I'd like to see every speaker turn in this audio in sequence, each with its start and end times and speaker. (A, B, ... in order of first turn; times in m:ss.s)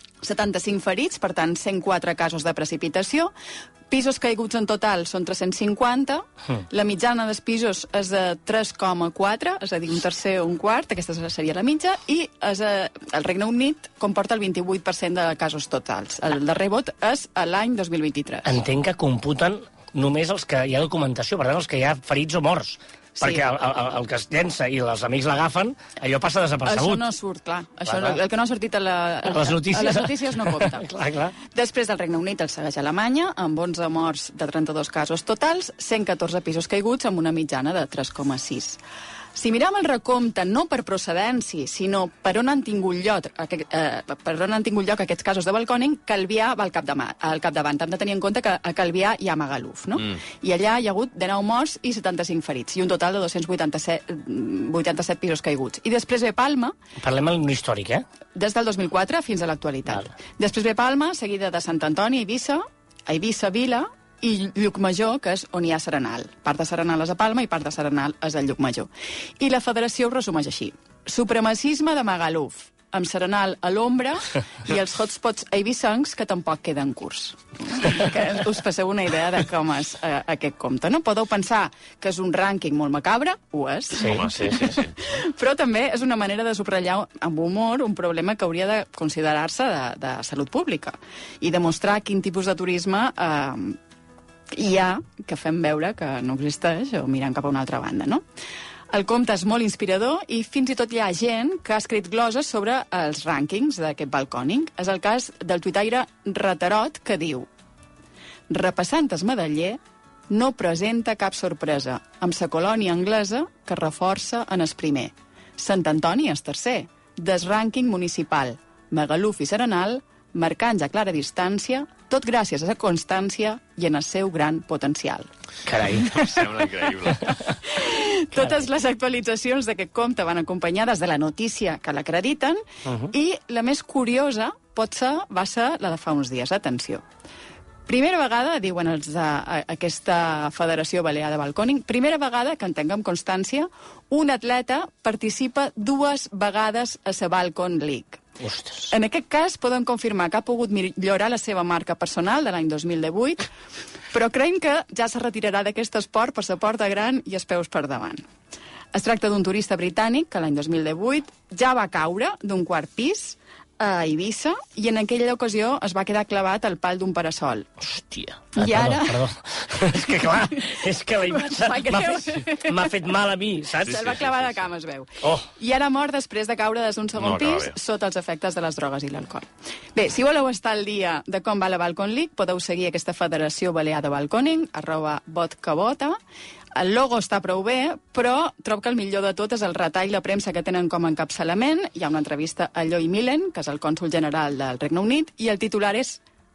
0:00.2-0:03.3 A
0:03.9-0:18.6 A
0:18.4-0:27.0 B
0:23.2-0:23.5 A
0:26.6-0:30.9 A
0:27.8-0:28.2 B
0:29.2-0:31.4 B
0:31.4-0:38.8 A
0:39.3-0:56.7 A
0:57.0-0:58.0 B
0:58.3-1:33.8 A
0:59.9-1:00.1 B
1:24.0-1:24.5 B
1:24.0-1:25.0 C
1:34.5-1:38.2 A
1:38.9-1:47.5 A
1:48.5-2:05.3 A
2:05.6-2:06.1 B
2:06.0-2:07.4 C
2:06.0-2:06.7 A
2:07.6-2:17.0 A
2:08.4-2:08.6 B
2:12.9-2:13.1 B
2:17.9-2:28.2 A
2:28.4-2:28.9 B
2:28.9-2:33.5 A
2:34.1-2:38.2 A
2:38.9-2:47.7 A
2:47.8-2:54.1 B
2:48.5-2:49.2 A
2:51.3-2:53.0 A
2:53.8-2:54.6 C
2:53.8-3:06.2 A
2:55.2-2:55.5 B
2:57.2-2:57.7 C
3:06.7-3:16.2 A